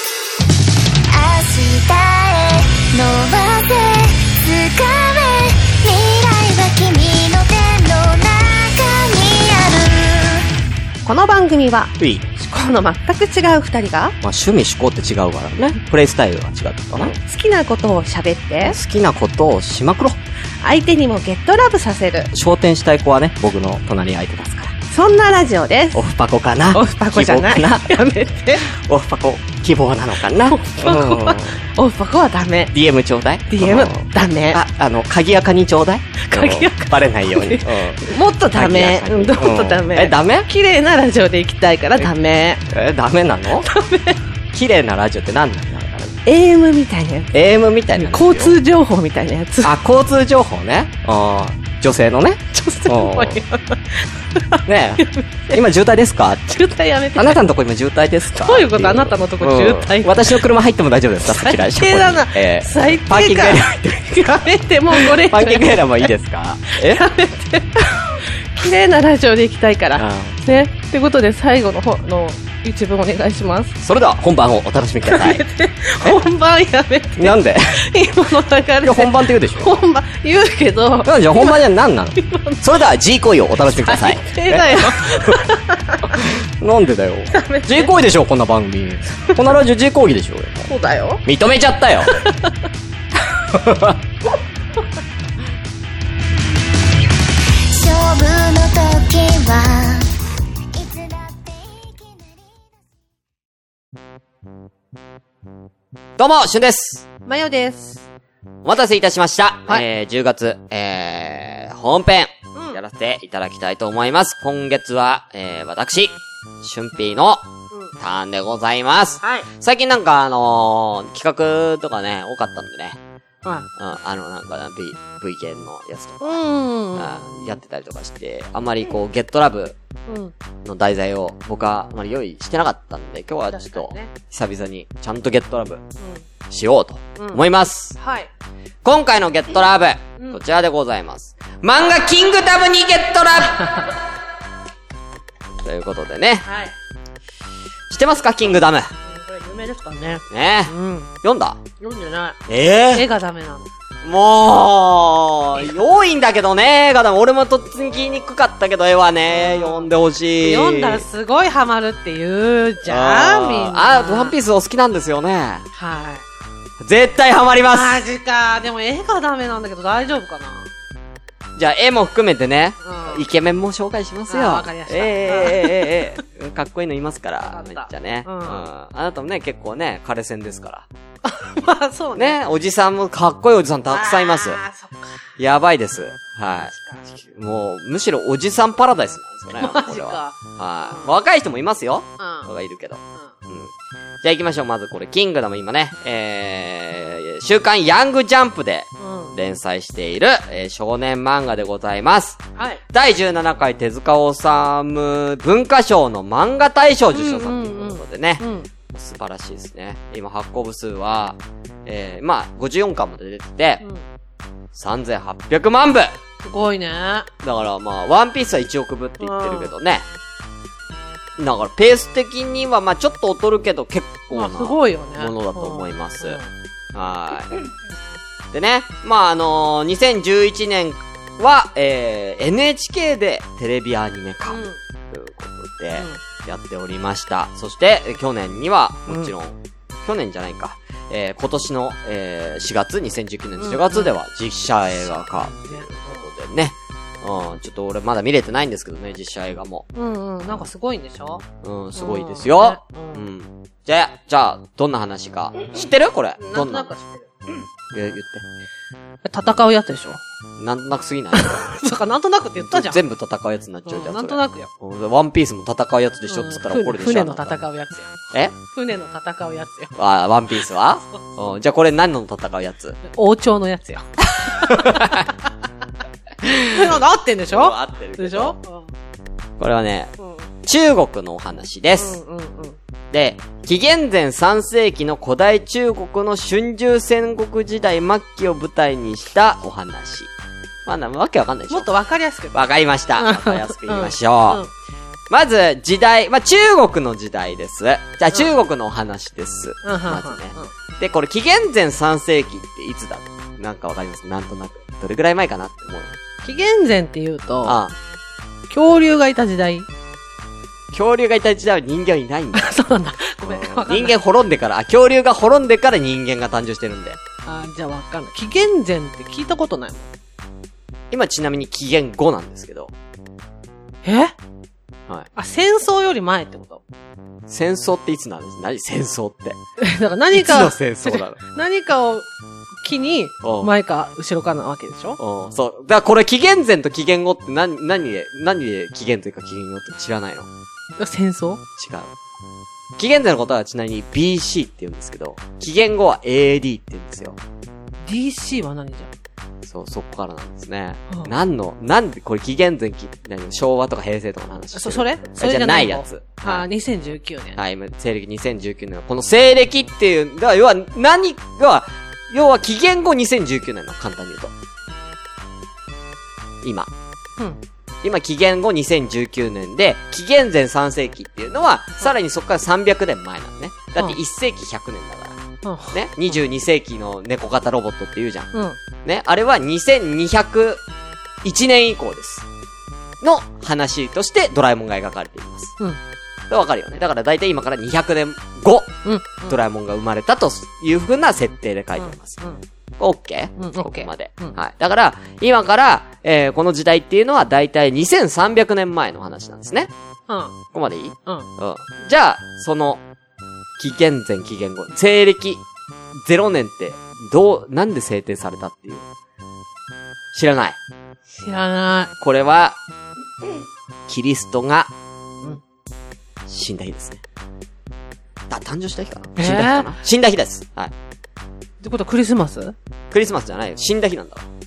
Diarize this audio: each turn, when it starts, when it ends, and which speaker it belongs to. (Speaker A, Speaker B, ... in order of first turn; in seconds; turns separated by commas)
Speaker A: 1.1-10.5, Speaker B: 11.0-14.1, Speaker C: 12.0-12.2, Speaker C: 14.2-17.1, Speaker B: 17.0-18.8, Speaker C: 18.6-20.1, Speaker B: 20.6-22.3, Speaker C: 22.3-24.7, Speaker B: 24.9-26.0, Speaker C: 25.9-28.1, Speaker B: 26.7-28.7, Speaker C: 28.6-31.6, Speaker B: 30.4-32.7, Speaker C: 32.7-40.5, Speaker B: 33.5-34.6, Speaker B: 36.2-42.6, Speaker C: 42.7-43.7, Speaker B: 43.6-44.2, Speaker C: 44.5-46.2, Speaker B: 46.2-47.3, Speaker C: 47.3-48.6, Speaker B: 47.9-49.7, Speaker C: 49.6-53.4, Speaker B: 52.5-55.6, Speaker C: 54.6-56.4, Speaker B: 56.4-57.4, Speaker C: 57.1-64.4, Speaker B: 58.3-60.4, Speaker B: 61.2-66.1, Speaker C: 64.9-67.0, Speaker B: 66.7-73.7, Speaker C: 70.0-70.3, Speaker C: 73.8-75.4, Speaker B: 75.0-82.6, Speaker C: 77.2-77.8, Speaker C: 78.8-79.7, Speaker C: 81.0-85.4, Speaker B: 83.6-86.3, Speaker C: 86.1-90.6, Speaker B: 87.3-87.9, Speaker B: 90.6-91.2, Speaker C: 91.2-92.1, Speaker B: 92.1-92.5, Speaker C: 93.5-93.9, Speaker A: 97.7-100.1, Speaker A: 100.7-102.8, Speaker C: 106.2-107.1, Speaker B: 107.2-108.0, Speaker C: 108.6-117.5, Speaker C: 118.0-123.0, Speaker B: 119.2-119.5, Speaker C: 123.8-126.4, Speaker B: 126.2-127.5, Speaker C: 126.9-129.8, Speaker B: 130.1-130.3, Speaker C: 130.6-135.8, Speaker B: 133.5-134.1, Speaker B: 136.0-136.2, Speaker C: 136.5-138.0, Speaker B: 137.2-137.4, Speaker B: 138.0-138.3, Speaker C: 138.8-143.8, Speaker C: 145.6-146.4, Speaker B: 146.4-146.7, Speaker C: 147.9-148.9, Speaker B: 149.0-151.1, Speaker C: 150.3-151.6, Speaker B: 151.8-153.7, Speaker C: 152.5-153.0, Speaker C: 154.0-161.1, Speaker B: 159.3-159.9, Speaker B: 160.4-164.3, Speaker C: 162.8-165.7, Speaker B: 165.7-166.2, Speaker C: 166.8-168.0, Speaker B: 167.7-170.7, Speaker C: 171.6-180.9, Speaker B: 172.8-173.2, Speaker B: 174.3-176.0, Speaker B: 177.4-178.7, Speaker B: 181.2-182.4, Speaker C: 182.1-184.6, Speaker B: 183.9-185.2, Speaker C: 185.4-186.7, Speaker B: 186.7-187.2, Speaker C: 187.2-202.4, Speaker B: 189.5-191.1, Speaker B: 192.2-192.5, Speaker B: 199.0-199.3, Speaker B: 202.6-202.8, Speaker C: 202.9-213.8, Speaker B: 207.1-208.7, Speaker C: 214.7-216.1, Speaker B: 216.4-217.3, Speaker C: 217.4-220.0, Speaker B: 219.2-219.7, Speaker C: 221.4-226.4, Speaker B: 224.3-226.5, Speaker C: 226.9-227.6, Speaker C: 228.5-249.9, Speaker B: 234.5-234.8, Speaker B: 239.1-239.3, Speaker B: 243.6-244.2, Speaker B: 244.9-246.2, Speaker B: 249.9-253.2, Speaker C: 251.6-256.9, Speaker B: 256.4-257.3, Speaker C: 257.9-258.4, Speaker B: 259.2-260.2, Speaker C: 260.6-261.7, Speaker B: 261.3-263.0, Speaker C: 262.6-267.6, Speaker B: 263.9-264.7, Speaker B: 266.2-269.9, Speaker C: 269.9-273.0, Speaker B: 273.1-275.3, Speaker C: 274.5-275.3, Speaker C: 276.4-277.0, Speaker B: 276.6-278.9, Speaker C: 277.5-278.6, Speaker C: 279.6-280.1, Speaker B: 280.2-280.5, Speaker C: 280.6-282.2, Speaker B: 282.0-282.8, Speaker C: 283.1-290.3, Speaker C: 290.9-291.9, Speaker B: 291.7-294.7, Speaker C: 292.5-294.6, Speaker C: 295.3-306.1, Speaker B: 299.8-300.7, Speaker B: 306.4-307.8, Speaker C: 307.6-307.9, Speaker B: 308.7-309.9, Speaker C: 310.9-312.7, Speaker B: 312.5-314.1, Speaker C: 313.4-317.2, Speaker B: 317.4-320.1, Speaker C: 321.1-322.9, Speaker B: 324.0-324.3, Speaker B: 325.3-326.8, Speaker C: 327.5-329.6, Speaker B: 329.8-332.3, Speaker C: 330.3-331.4, Speaker B: 332.8-335.2, Speaker C: 333.4-333.7, Speaker C: 335.2-340.5, Speaker B: 341.0-341.6, Speaker C: 341.8-342.1, Speaker C: 343.0-347.4, Speaker B: 348.0-349.1, Speaker C: 349.6-356.6, Speaker B: 354.7-357.6, Speaker C: 357.6-364.5, Speaker C: 366.6-366.9, Speaker C: 368.0-375.4, Speaker B: 375.6-376.4, Speaker C: 375.9-378.5, Speaker B: 378.5-378.8, Speaker C: 379.0-380.8, Speaker C: 381.4-382.4, Speaker C: 383.2-385.7, Speaker C: 386.5-392.4, Speaker B: 389.0-389.6, Speaker B: 392.0-392.6, Speaker C: 393.0-399.9, Speaker B: 393.6-394.6, Speaker B: 400.3-400.6, Speaker C: 400.7-403.0, Speaker C: 403.8-405.6, Speaker C: 406.1-409.1, Speaker C: 410.3-410.8, Speaker B: 411.4-412.1, Speaker C: 412.2-412.8, Speaker C: 414.1-414.9, Speaker C: 416.5-417.2, Speaker C: 418.5-420.9, Speaker B: 419.4-419.9, Speaker B: 421.8-422.7, Speaker C: 423.1-424.4